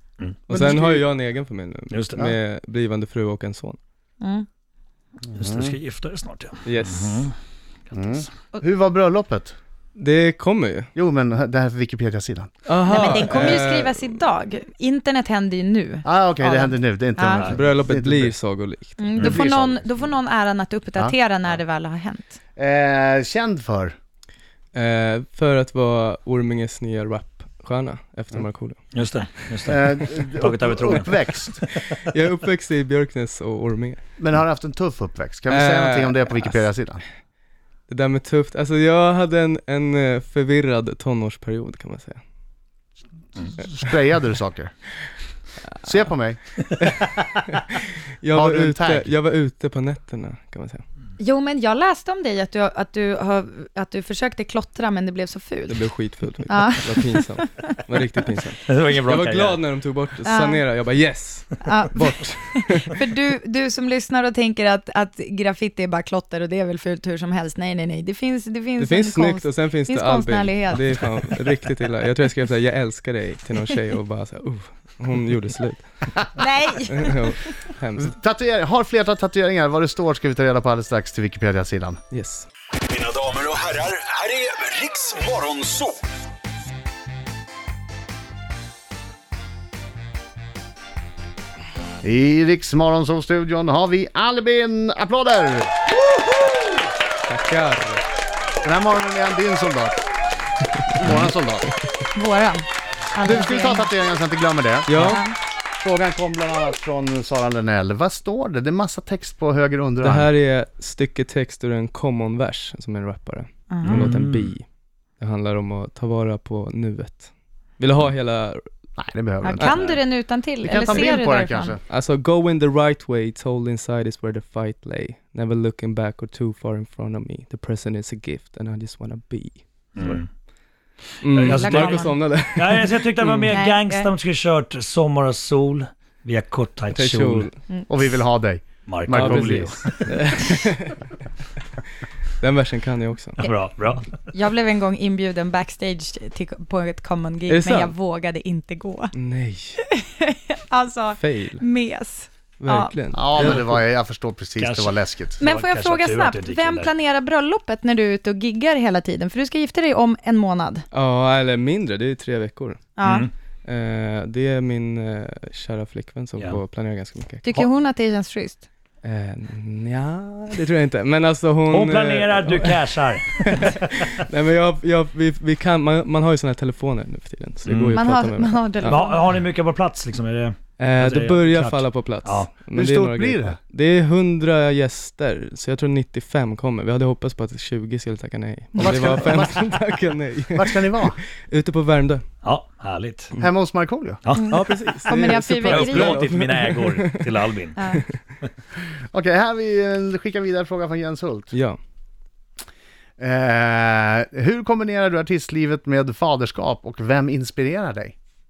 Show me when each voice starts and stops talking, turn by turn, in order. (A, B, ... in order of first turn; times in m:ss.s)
0:00.5-0:03.8 A
0:00.6-0:01.0 B
0:01.9-0:02.2 C
0:04.2-0:04.4 D
0:05.3-0:07.3 C
0:05.4-0:05.7 B
0:06.6-0:07.2 A
0:07.9-0:09.5 B
0:10.0-0:10.9 A
0:11.0-0:12.5 B
0:12.6-0:14.2 A
0:12.8-0:17.4 D
0:16.0-0:18.3 B
0:17.4-0:19.8 A
0:19.0-0:22.4 D
0:19.2-0:19.4 C
0:22.6-0:23.9 B
0:24.7-0:28.8 A
0:28.9-0:31.6 C
0:29.6-0:31.6 B
0:31.9-0:34.0 A
0:34.2-0:37.0 B
0:35.5-0:36.6 A
0:37.9-0:42.2 A
0:43.4-0:44.7 B
0:45.8-0:46.4 B
0:46.8-0:50.8 A
0:48.3-0:49.1 B
0:51.2-0:55.9 D
0:55.7-1:02.9 A
0:56.5-0:57.7 D
0:58.6-0:59.6 C
1:00.2-1:00.6 D
1:01.6-1:11.3 D
1:08.8-1:15.8 A
1:16.4-1:17.3 D
1:16.9-1:18.1 A
1:18.0-1:22.0 B
1:22.1-1:22.5 A
1:22.9-1:25.9 E
1:32.0-1:35.7 B
1:37.3-1:38.0 A
1:38.6-1:40.0 B
1:40.9-1:41.7 B
1:42.1-1:43.9 D
1:43.2-1:45.1 B
1:44.9-1:45.2 A
1:45.0-1:45.3 D
1:45.8-1:50.3 B
1:50.0-1:54.6 A
1:53.7-1:54.1 D
1:53.8-1:54.5 C
1:55.2-1:58.6 A
1:59.0-1:59.6 B
1:59.4-2:01.8 D
1:59.7-2:00.0 C
2:00.6-2:01.8 B
2:01.9-2:10.2 A
2:10.0-2:10.3 C
2:11.2-2:13.5 A
2:11.3-2:17.5 C
2:11.4-2:12.1 D
2:13.5-2:14.1 D
2:16.9-2:17.6 A
2:17.9-2:19.9 B
2:18.8-2:20.1 C
2:19.1-2:21.0 A
2:22.4-2:23.4 A
2:23.4-2:24.2 C
2:24.3-2:29.1 D
2:27.5-2:27.9 A
2:29.1-2:29.8 A
2:29.9-2:33.0 D
2:31.2-2:31.6 A
2:32.6-2:33.5 A
2:33.1-2:35.4 B
2:33.4-2:33.7 C
2:34.6-2:36.9 C
2:35.4-2:40.9 D
2:40.9-2:42.9 A
2:43.0-2:43.3 D
2:43.0-2:43.3 C
2:43.6-2:47.6 A
2:47.4-2:48.6 D
2:49.0-2:52.8 A
2:51.7-2:54.1 C
2:53.4-2:59.0 A
2:57.6-2:58.0 C
2:57.9-2:59.3 D
2:58.8-3:02.5 C
3:00.8-3:12.2 A
3:02.7-3:03.6 B
3:08.8-3:09.7 B
3:10.5-3:11.2 B
3:12.4-3:13.3 C
3:13.4-3:14.2 B
3:14.2-3:14.5 C
3:14.3-3:16.2 D
3:14.5-3:17.2 A
3:15.6-3:17.8 C
3:17.8-3:18.0 D
3:19.1-3:21.5 B
3:21.5-3:21.8 A
3:23.2-3:28.1 B